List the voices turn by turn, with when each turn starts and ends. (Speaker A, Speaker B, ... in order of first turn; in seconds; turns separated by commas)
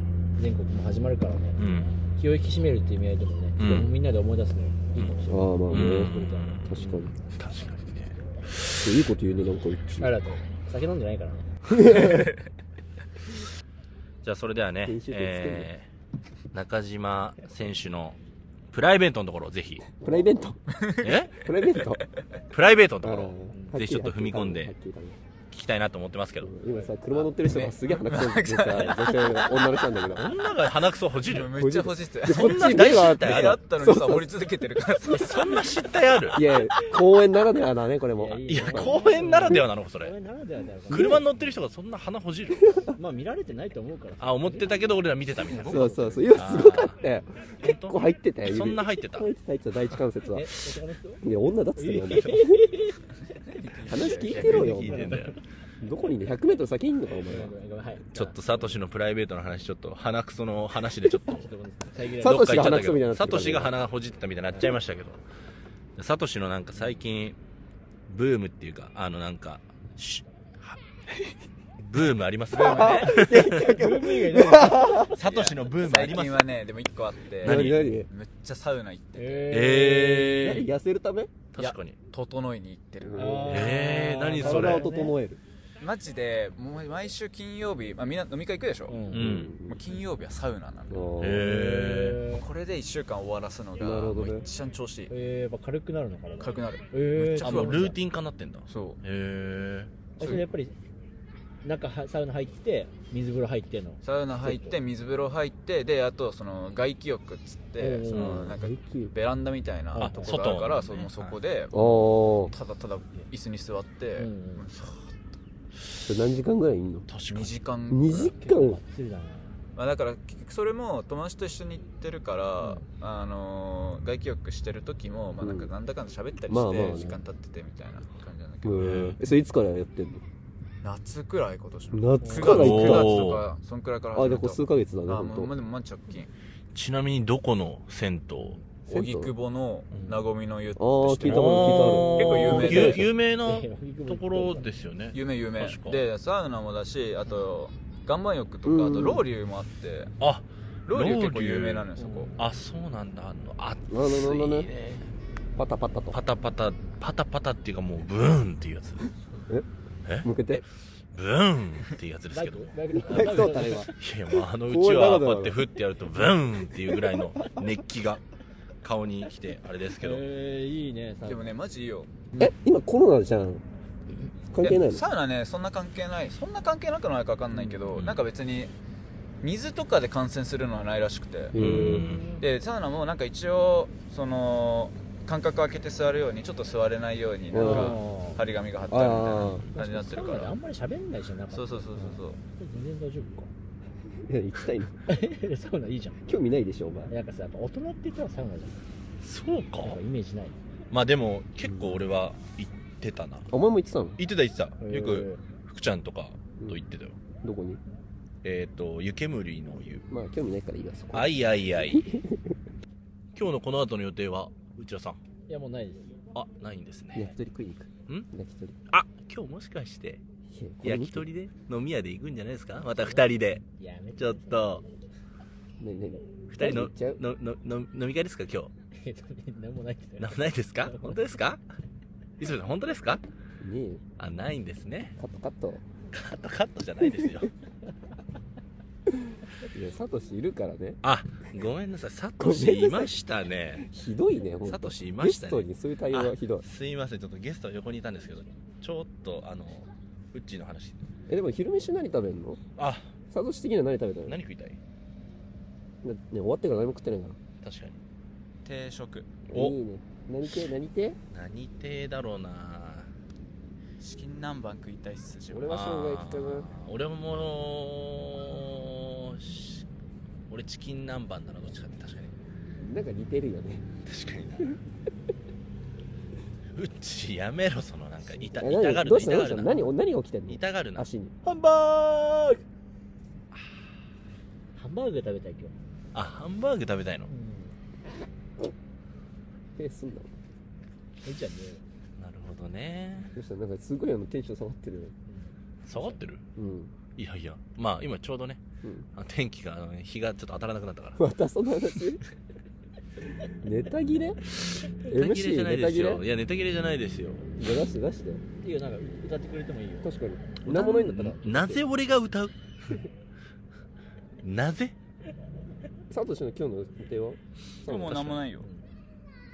Speaker A: 0.4-1.6, Speaker B: 1.6-2.0, Speaker A: 2.1-7.1, Speaker B: 3.6-3.9, Speaker C: 3.6-3.9, Speaker B: 5.0-9.0, Speaker C: 5.3-7.1, Speaker C: 8.8-10.1, Speaker A: 10.0-11.5, Speaker C: 11.7-12.3, Speaker B: 14.2-15.9, Speaker C: 14.9-15.7, Speaker B: 16.5-18.2, Speaker B: 18.7-19.9, Speaker C: 20.0-20.6, Speaker D: 20.7-21.2, Speaker B: 21.0-21.5, Speaker C: 21.3-22.0, Speaker B: 22.5-24.7, Speaker C: 23.0-25.2, Speaker B: 25.5-26.5, Speaker C: 26.4-30.4, Speaker D: 27.4-29.6, Speaker B: 30.1-31.6, Speaker D: 31.2-35.8, Speaker C: 31.5-34.5, Speaker B: 32.2-33.6, Speaker B: 35.0-36.4, Speaker C: 36.3-39.0, Speaker A: 36.5-37.0, Speaker A: 38.2-41.4, Speaker B: 38.5-40.1, Speaker C: 40.9-41.2, Speaker B: 40.9-42.8, Speaker A: 43.0-46.4, Speaker B: 44.2-47.0, Speaker C: 45.6-50.5, Speaker B: 47.6-49.3, Speaker A: 50.3-51.2, Speaker C: 51.2-52.6, Speaker A: 51.8-53.0, Speaker D: 53.5-54.7, Speaker C: 53.9-55.2, Speaker B: 54.1-55.4, Speaker A: 54.4-55.4, Speaker C: 55.8-57.5, Speaker A: 57.2-58.8, Speaker B: 58.1-61.5, Speaker A: 61.2-62.9, Speaker C: 62.2-63.8, Speaker B: 62.2-65.2, Speaker B: 66.0-67.4, Speaker B: 68.1-70.8, Speaker B: 71.8-73.7, Speaker D: 72.5-73.2, Speaker C: 72.6-75.2, Speaker A: 73.3-75.1, Speaker B: 75.1-76.5, Speaker D: 75.2-79.6, Speaker B: 77.4-78.0, Speaker C: 77.4-78.1, Speaker A: 79.2-80.6, Speaker B: 79.5-80.7, Speaker C: 80.4-81.3, Speaker B: 81.5-82.0, Speaker D: 81.6-83.6, Speaker C: 83.0-83.7, Speaker A: 83.2-85.2, Speaker B: 83.5-84.9, Speaker C: 84.4-85.4, Speaker D: 85.8-89.1, Speaker A: 88.9-89.3, Speaker B: 89.1-89.5, Speaker C: 89.1-89.8, Speaker D: 89.6-91.1, Speaker C: 90.9-91.5, Speaker B: 91.2-92.2, Speaker A: 91.4-92.4, Speaker D: 92.3-95.1, Speaker C: 93.8-94.5, Speaker A: 95.1-98.0, Speaker D: 96.4-98.0, Speaker B: 97.2-99.9, Speaker D: 98.7-99.0, Speaker A: 100.2-100.8, Speaker D: 100.2-100.5, Speaker A: 101.6-104.8, Speaker D: 104.0-115.2, Speaker A: 107.8-108.5, Speaker C: 108.1-109.1, Speaker B: 110.0-111.4, Speaker A: 110.0-110.4, Speaker C: 111.7-112.5, Speaker A: 114.2-114.7, Speaker C: 116.0-117.1, Speaker B: 117.1-117.6, Speaker D: 117.3-118.3, Speaker C: 117.9-118.8, Speaker A: 118.3-119.6, Speaker D: 119.8-129.2, Speaker A: 122.6-122.8, Speaker C: 125.4-125.7, Speaker C: 126.5-127.2, Speaker C: 128.6-130.2, Speaker B: 128.8-129.2, Speaker D: 130.8-136.3, Speaker C: 131.9-133.2, Speaker A: 132.2-132.6, Speaker B: 132.4-133.5, Speaker C: 134.1-135.5, Speaker B: 136.7-138.6, Speaker C: 138.9-139.3, Speaker D: 138.9-143.1, Speaker A: 139.9-140.2, Speaker C: 140.8-143.1, Speaker B: 141.2-146.0, Speaker A: 142.6-144.7, Speaker D: 145.1-150.1, Speaker C: 148.7-149.3, Speaker B: 150.2-155.1, Speaker D: 150.9-152.3, Speaker A: 152.0-152.4, Speaker C: 153.9-154.7, Speaker C: 155.6-156.2, Speaker B: 156.1-159.1, Speaker B: 160.1-168.2, Speaker C: 160.2-160.6, Speaker A: 162.3-164.0, Speaker C: 163.0-163.9, Speaker C: 164.7-165.6, Speaker B: 168.8-170.3, Speaker A: 169.9-171.6, Speaker D: 171.2-172.2, Speaker C: 172.4-173.6, Speaker C: 174.5-175.1, Speaker D: 174.6-178.7, Speaker B: 177.9-178.2, Speaker D: 179.4-181.6, Speaker C: 181.5-182.2, Speaker B: 181.6-182.3, Speaker A: 181.8-182.4, Speaker D: 182.4-190.5, Speaker C: 187.5-188.0, Speaker A: 187.6-188.4, Speaker C: 188.9-189.6, Speaker A: 189.8-193.5, Speaker D: 191.5-192.4, Speaker C: 194.2-195.0, Speaker A: 195.1-196.2, Speaker C: 196.3-197.1, Speaker A: 197.1-198.9, Speaker B: 199.2-200.0, Speaker A: 199.8-200.6, Speaker B: 200.9-203.5, Speaker C: 201.7-202.0, Speaker C: 203.5-204.2, Speaker B: 204.2-207.2, Speaker A: 204.8-205.4, Speaker C: 207.4-207.8, Speaker B: 208.4-210.1, Speaker C: 210.1-212.6, Speaker B: 211.1-212.1, Speaker B: 213.3-215.2, Speaker A: 215.5-216.1, Speaker B: 216.3-217.3, Speaker C: 217.1-218.8, Speaker B: 218.9-220.2, Speaker C: 220.5-221.3, Speaker B: 220.8-223.7, Speaker A: 223.0-224.8, Speaker B: 224.2-224.8, Speaker C: 225.8-227.2, Speaker B: 226.5-228.7, Speaker A: 228.9-231.2, Speaker B: 230.2-231.6, Speaker B: 232.4-233.2, Speaker C: 233.6-234.0, Speaker B: 234.2-235.2, Speaker C: 235.2-235.8, Speaker B: 236.1-237.5, Speaker C: 237.0-237.5, Speaker C: 239.3-241.0, Speaker B: 241.0-243.9, Speaker C: 242.4-243.1, Speaker C: 243.8-246.7, Speaker B: 244.7-251.0, Speaker C: 251.3-252.6, Speaker B: 252.8-253.1, Speaker C: 253.3-254.4, Speaker B: 254.3-254.8, Speaker C: 256.0-257.4, Speaker B: 257.6-258.0, Speaker D: 258.6-259.4, Speaker C: 259.5-261.2, Speaker B: 259.5-259.8, Speaker B: 261.3-263.1, Speaker D: 264.0-265.8, Speaker C: 265.5-266.7, Speaker B: 265.7-269.9, Speaker B: 270.5-272.3, Speaker C: 272.8-273.9, Speaker B: 274.1-274.8, Speaker B: 276.8-279.9, Speaker C: 278.5-281.4, Speaker B: 280.5-281.1, Speaker A: 281.4-282.6, Speaker A: 284.8-285.8, Speaker B: 286.1-287.3, Speaker A: 287.3-287.8, Speaker C: 289.8-290.3, Speaker A: 291.2-291.8, Speaker B: 292.2-293.3, Speaker C: 293.3-295.1, Speaker A: 295.3-296.2, Speaker B: 295.9-296.4, Speaker C: 296.6-296.9, Speaker B: 297.2-298.6, Speaker B: 299.1-301.2, Speaker C: 301.2-302.2, Speaker C: 303.5-304.4, Speaker B: 304.6-307.5, Speaker C: 305.1-306.2, Speaker C: 307.6-308.4, Speaker A: 308.6-310.1, Speaker C: 310.0-311.8, Speaker B: 310.6-313.0, Speaker B: 314.4-314.9, Speaker C: 316.1-318.4, Speaker D: 317.8-318.7, Speaker A: 318.6-318.9